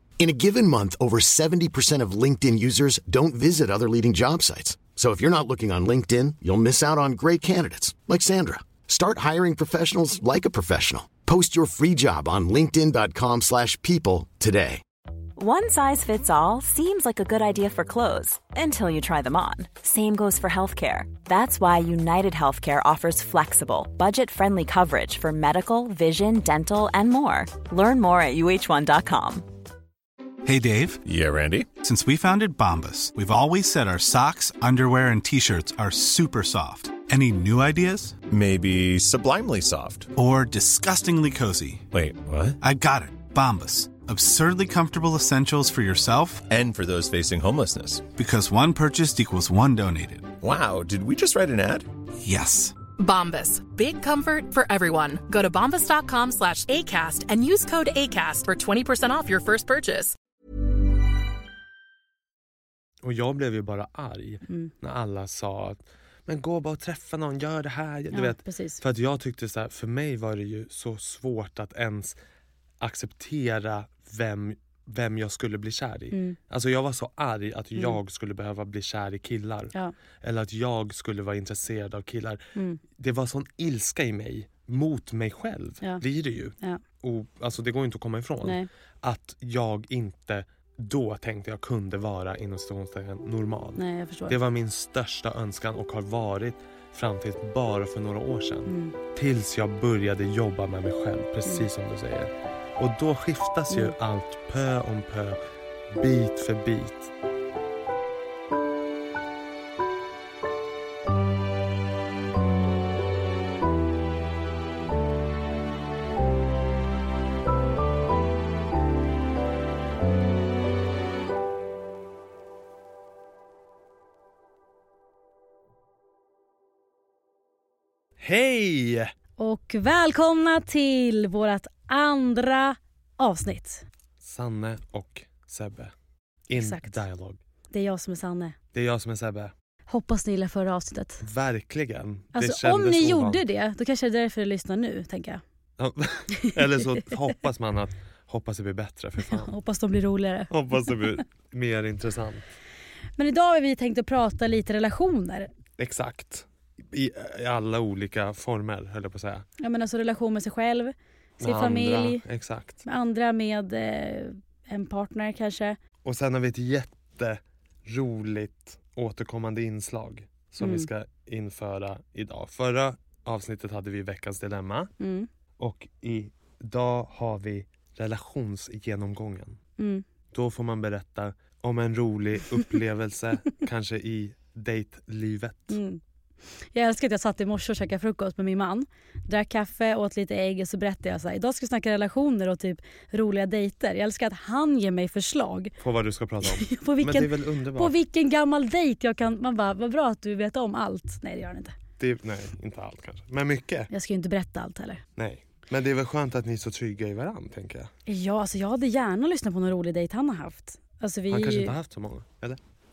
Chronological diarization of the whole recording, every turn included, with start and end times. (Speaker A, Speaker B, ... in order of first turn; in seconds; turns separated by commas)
Speaker A: 0.2-14.8, Speaker B: 15.3-29.5, Speaker C: 30.4-31.0, Speaker D: 31.0-31.7, Speaker C: 31.7-38.2, Speaker D: 38.3-40.1, Speaker C: 40.1-41.9, Speaker D: 41.9-42.6, Speaker C: 42.6-46.4, Speaker D: 46.5-48.1, Speaker C: 48.1-50.3, Speaker D: 50.4-51.9, Speaker C: 52.2-52.8, Speaker E: 53.0-60.2, Speaker F: 63.0-72.2, Speaker G: 68.1-68.8, Speaker F: 72.8-105.4, Speaker G: 82.5-82.8, Speaker G: 88.4-88.7, Speaker G: 93.8-94.3, Speaker G: 98.7-99.0, Speaker G: 103.7-104.0, Speaker F: 105.9-107.1, Speaker F: 128.2-129.1, Speaker G: 129.4-133.8, Speaker F: 134.2-135.9, Speaker F: 136.5-137.4, Speaker G: 136.5-137.0, Speaker G: 137.7-138.5, Speaker F: 138.7-139.5, Speaker G: 139.9-141.2, Speaker F: 141.2-143.4, Speaker G: 142.3-145.4, Speaker F: 145.8-149.5, Speaker G: 146.3-146.8, Speaker G: 149.2-151.0, Speaker F: 150.5-152.4, Speaker G: 153.2-155.5, Speaker F: 155.8-159.4, Speaker G: 159.6-162.2, Speaker F: 161.4-162.8, Speaker G: 162.8-165.8, Speaker F: 166.0-174.9, Speaker G: 170.6-170.9, Speaker G: 175.0-175.3, Speaker F: 175.6-179.6, Speaker G: 179.8-180.0, Speaker F: 180.3-185.8, Speaker G: 185.7-186.0, Speaker G: 186.6-195.7, Speaker F: 195.8-197.9, Speaker G: 196.4-201.7, Speaker F: 202.0-203.9, Speaker G: 203.9-205.0, Speaker F: 205.2-207.9, Speaker G: 208.1-211.7, Speaker F: 211.3-212.6